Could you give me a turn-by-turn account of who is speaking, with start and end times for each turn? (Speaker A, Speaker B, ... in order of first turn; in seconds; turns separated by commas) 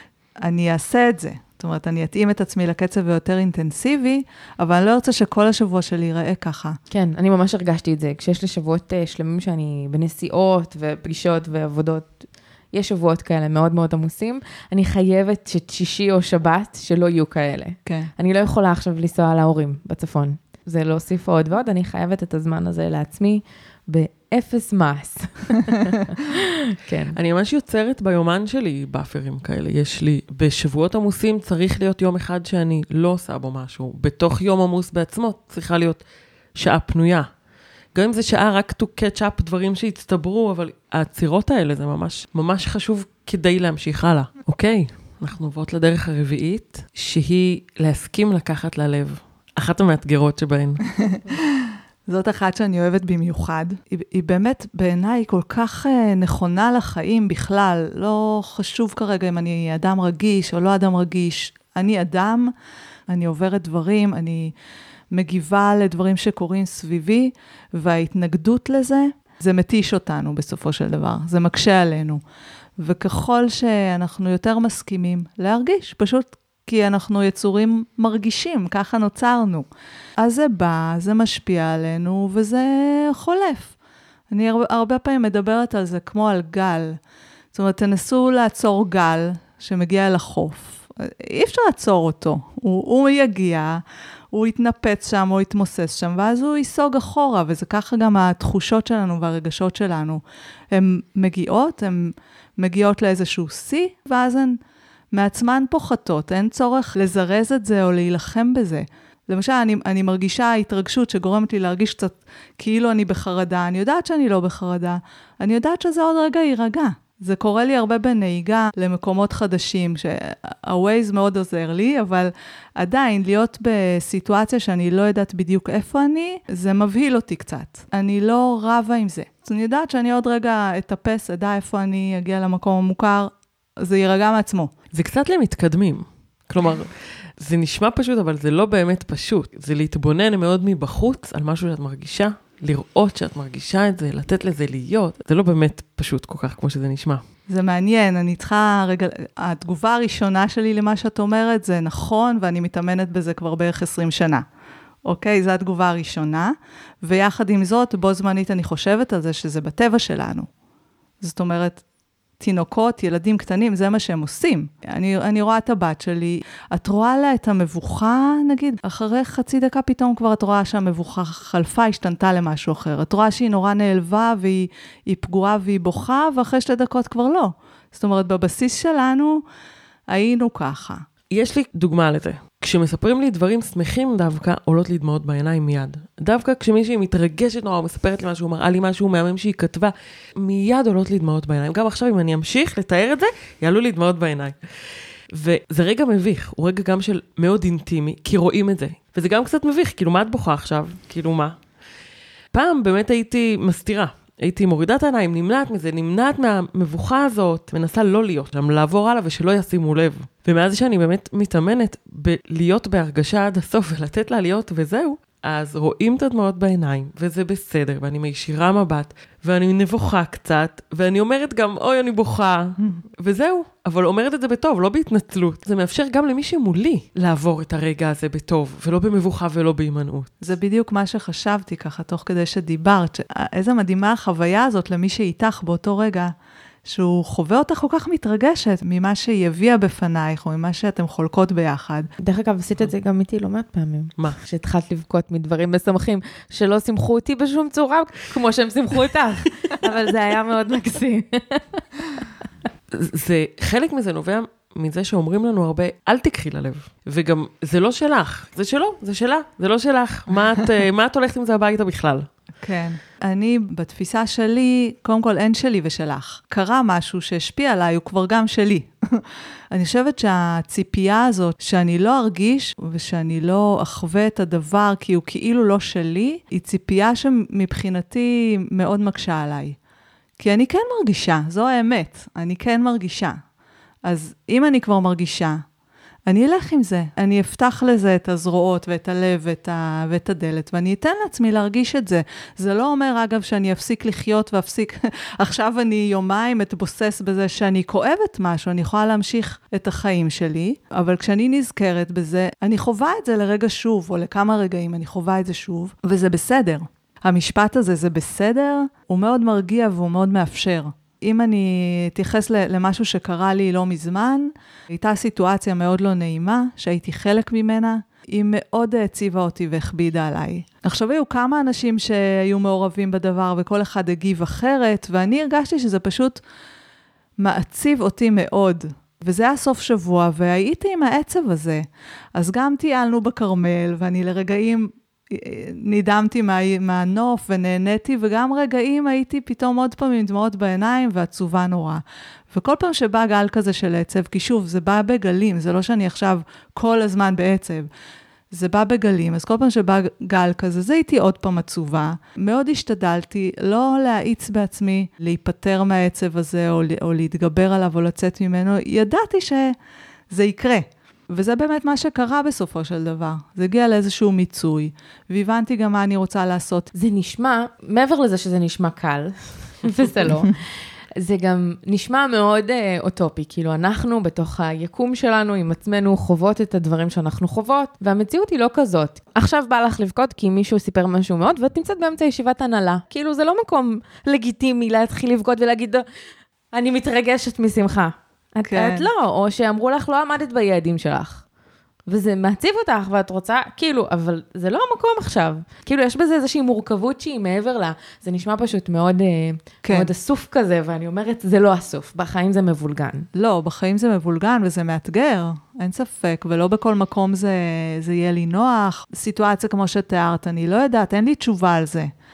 Speaker A: 0.4-6.8, Speaker B: 6.9-27.1, Speaker A: 17.9-18.1, Speaker C: 27.1-36.0, Speaker C: 36.5-37.3, Speaker C: 37.9-50.8, Speaker A: 52.1-62.5, Speaker A: 63.1-64.5, Speaker A: 65.1-72.2, Speaker A: 72.8-79.7, Speaker A: 80.2-83.7, Speaker A: 84.3-87.0, Speaker A: 87.5-104.6, Speaker A: 105.1-134.7, Speaker C: 134.9-147.2, Speaker A: 147.5-154.4, Speaker A: 155.0-160.5, Speaker A: 161.2-161.8, Speaker A: 162.4-179.4, Speaker A: 180.1-181.0, Speaker C: 181.3-194.6, Speaker C: 195.3-201.6, Speaker C: 202.5-230.3, Speaker A: 230.4-236.3, Speaker A: 236.8-242.1, Speaker B: 242.2-252.3, Speaker C: 252.9-262.3, Speaker A: 262.6-279.8, Speaker A: 280.4-283.4, Speaker A: 284.0-285.6, Speaker A: 286.2-326.4, Speaker A: 327.4-331.8, Speaker A: 332.3-347.9, Speaker A: 348.5-359.7, Speaker A: 360.3-366.9, Speaker B: 366.9-386.0, Speaker B: 386.7-391.4, Speaker A: 388.6-389.1, Speaker B: 392.1-403.3, Speaker A: 399.8-400.1, Speaker A: 403.3-412.1